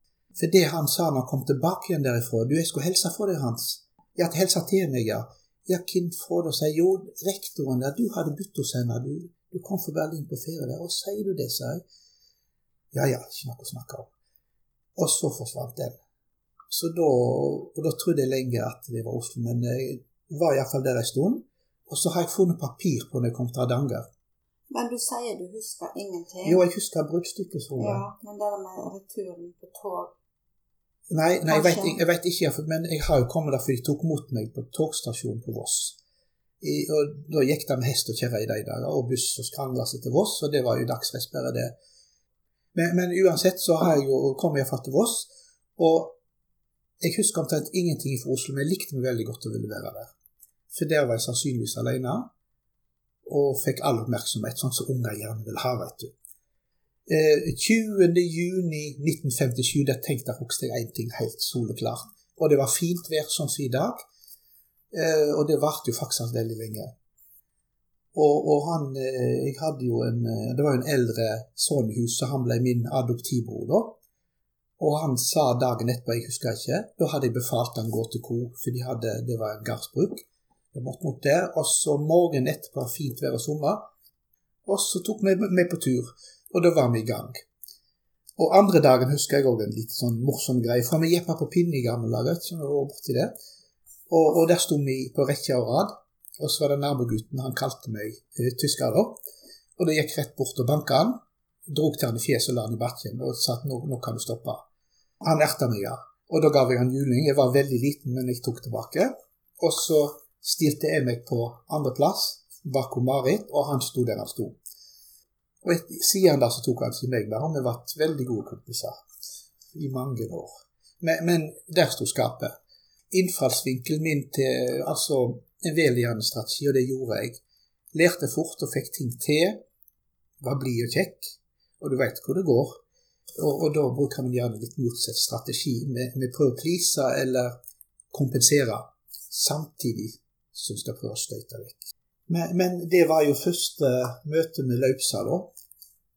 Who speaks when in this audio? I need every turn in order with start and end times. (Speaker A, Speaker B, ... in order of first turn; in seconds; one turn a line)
Speaker A: 0.4-11.8
Speaker A: 12.9-14.1
Speaker A: 14.9-16.0
Speaker A: 16.7-24.1
Speaker B: 24.7-26.6
Speaker A: 26.4-28.0
Speaker B: 27.8-30.1
Speaker A: 31.1-36.0
Speaker B: 31.5-32.0
Speaker A: 36.6-41.7
Speaker A: 42.7-46.1
Speaker A: 47.0-50.1
Speaker A: 50.7-52.3
Speaker A: 53.2-56.1
Speaker A: 57.1-64.0
Speaker A: 64.9-66.9
Speaker A: 68.1-74.0
Speaker A: 74.8-83.8
Speaker A: 84.7-87.4
Speaker A: 88.4-93.3
Speaker A: 94.1-99.2
Speaker A: 99.8-104.6
Speaker A: 105.2-114.6
Speaker A: 115.6-119.1
Speaker A: 119.7-122.5
Speaker A: 123.1-127.4
Speaker A: 127.9-129.6
Speaker A: 130.4-132.8
Speaker A: 133.4-137.6
Speaker A: 138.1-145.5